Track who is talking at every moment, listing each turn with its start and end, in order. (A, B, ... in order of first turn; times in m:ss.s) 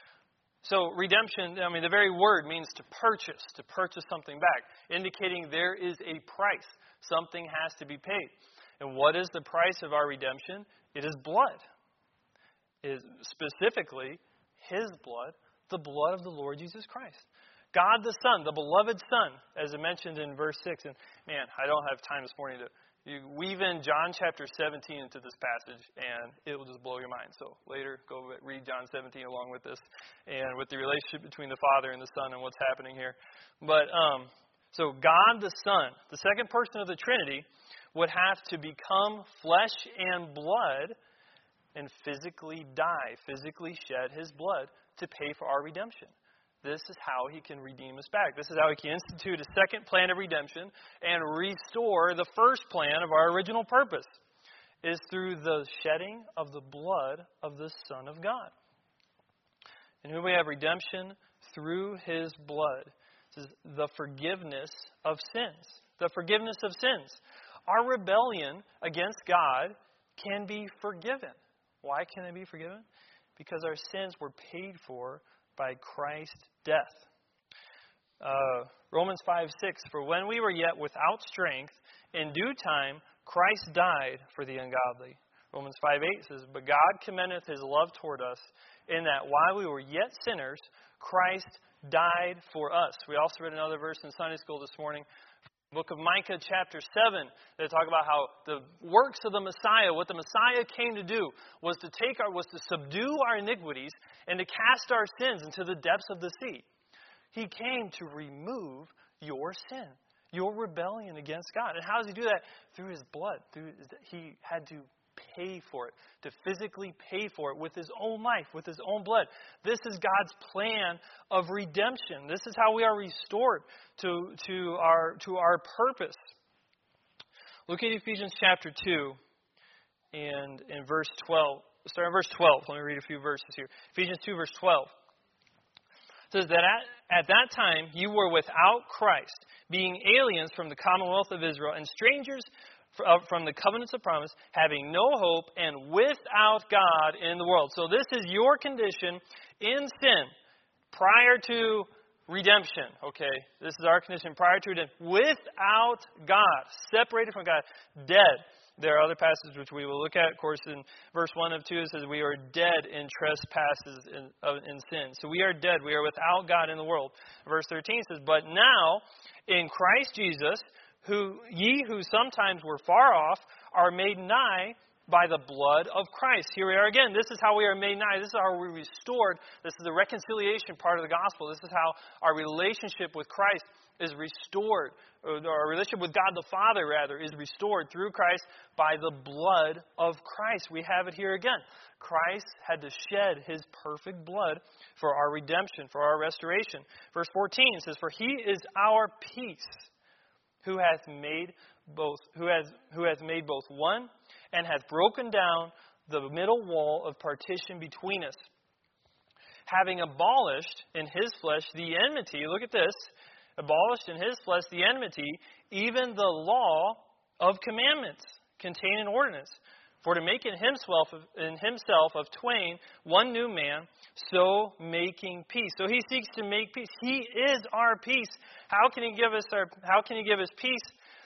0:00.6-0:11.6 A
0:12.8-0:41.0 A
0:41.8-0:54.2 A
0:54.8-0:58.5 A
1:00.0-1:12.8 A
1:13.4-1:17.1 A
1:18.2-1:35.0 A
1:35.7-1:46.6 A
1:47.3-2:06.2 A
2:07.7-2:09.2 A
2:10.1-2:14.9 A
2:16.3-2:30.3 A
2:30.9-3:19.9 A
3:20.6-3:28.5 A
3:29.7-3:51.0 A